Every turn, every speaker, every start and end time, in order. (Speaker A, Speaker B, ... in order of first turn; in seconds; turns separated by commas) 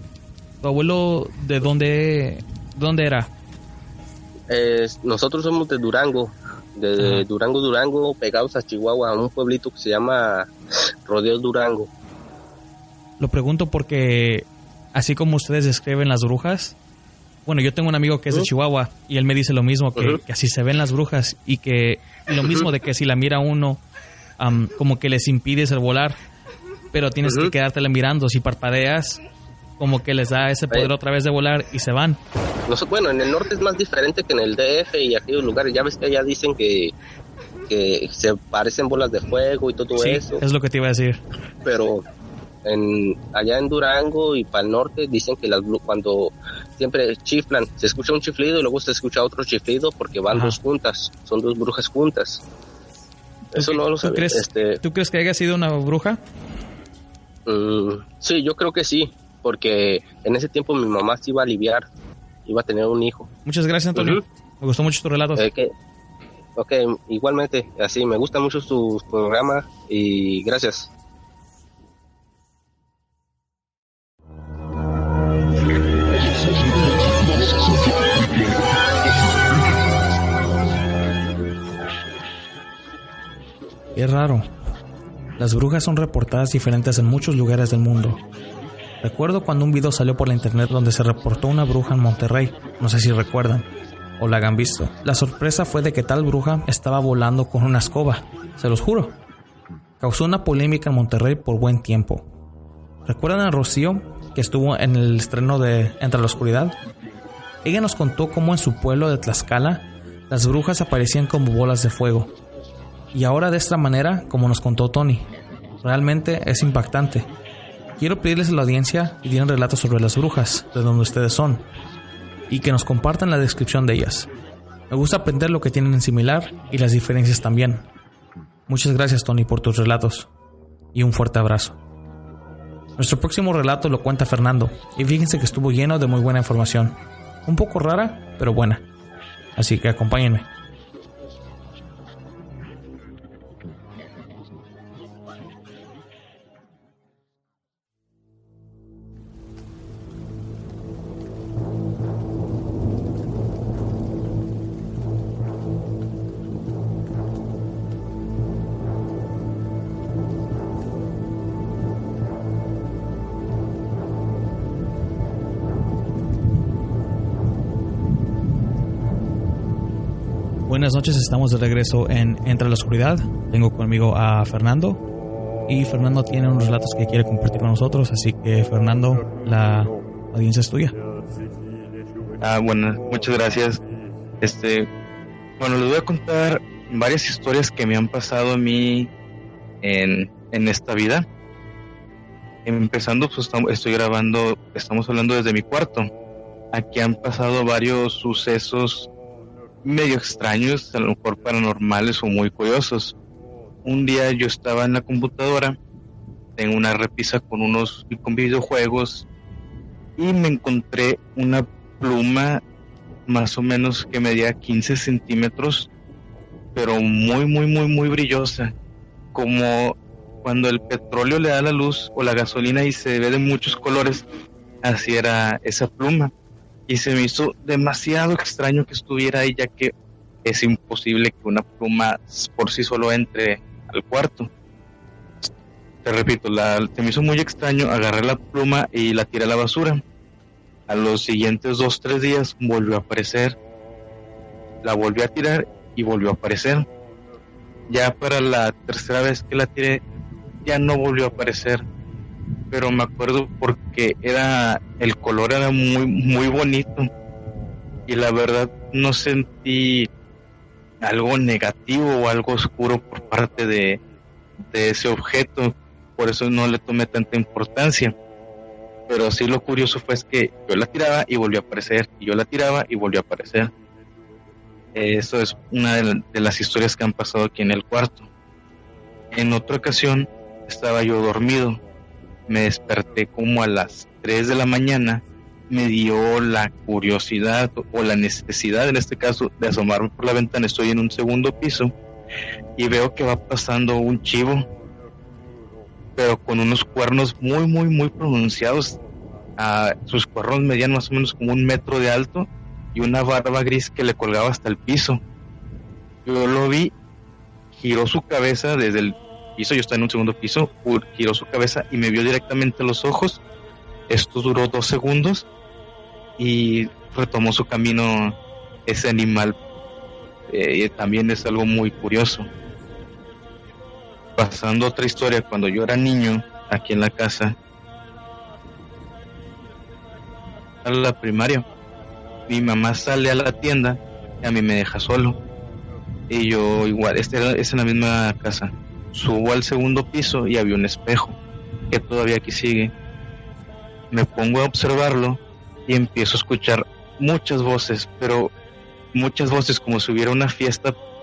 Speaker A: 0.6-3.3, Speaker B: 4.5-10.5, Speaker A: 7.0-7.2, Speaker B: 11.1-11.9, Speaker A: 13.2-16.8, Speaker A: 17.4-23.8, Speaker A: 24.4-26.2, Speaker A: 26.9-29.2, Speaker B: 27.2-27.5, Speaker A: 29.8-32.2, Speaker B: 32.7-36.9, Speaker B: 37.7-40.4, Speaker A: 40.0-41.2, Speaker B: 41.6-42.0, Speaker B: 42.6-52.4, Speaker A: 50.3-50.6, Speaker A: 53.5-56.2, Speaker B: 53.5-54.8, Speaker B: 57.5-61.8, Speaker B: 62.5-63.3, Speaker A: 63.5-65.4, Speaker B: 63.9-64.2, Speaker B: 65.4-65.7, Speaker B: 66.6-70.9, Speaker A: 83.9-84.5, Speaker A: 85.4-88.2, Speaker A: 89.0-99.2, Speaker A: 100.0-102.2, Speaker A: 103.0-106.8, Speaker A: 107.6-112.3, Speaker A: 113.1-115.3, Speaker A: 115.8-117.3, Speaker A: 118.0-121.7, Speaker A: 122.5-124.3, Speaker A: 124.9-127.9, Speaker A: 128.7-130.3, Speaker A: 130.9-131.8, Speaker A: 133.0-138.8, Speaker A: 139.6-140.5, Speaker A: 170.7-175.0, Speaker A: 175.7-181.0, Speaker C: 182.4-183.8, Speaker C: 184.4-184.9, Speaker C: 185.6-189.1, Speaker C: 189.8-191.2, Speaker C: 192.6-196.1, Speaker C: 196.7-199.1, Speaker C: 199.8-203.1, Speaker C: 203.8-205.8, Speaker C: 206.6-209.3, Speaker C: 210.2-212.6, Speaker C: 213.3-215.9, Speaker C: 216.7-218.7, Speaker C: 219.3-224.2, Speaker C: 224.8-226.3, Speaker C: 226.9-229.9, Speaker C: 230.4-234.5, Speaker C: 236.0-240.0, Speaker C: 240.9-243.6, Speaker C: 244.8-246.9, Speaker C: 247.9-250.0, Speaker C: 250.6-251.8, Speaker C: 252.7-257.1, Speaker C: 258.1-260.1, Speaker C: 261.0-264.0, Speaker C: 264.7-268.1, Speaker C: 269.1-273.7, Speaker C: 274.9-278.3, Speaker C: 279.3-281.8, Speaker C: 282.5-291.9, Speaker C: 292.8-294.7, Speaker C: 296.1-299.0, Speaker C: 299.6-305.2, Speaker C: 306.2-306.9, Speaker C: 307.7-313.4, Speaker C: 314.1-315.5, Speaker C: 316.4-319.6, Speaker C: 320.5-322.5, Speaker C: 324.4-327.6, Speaker C: 330.8-331.7, Speaker C: 332.5-335.4, Speaker C: 336.3-341.4, Speaker C: 341.9-342.9, Speaker C: 344.1-348.5, Speaker C: 349.1-350.9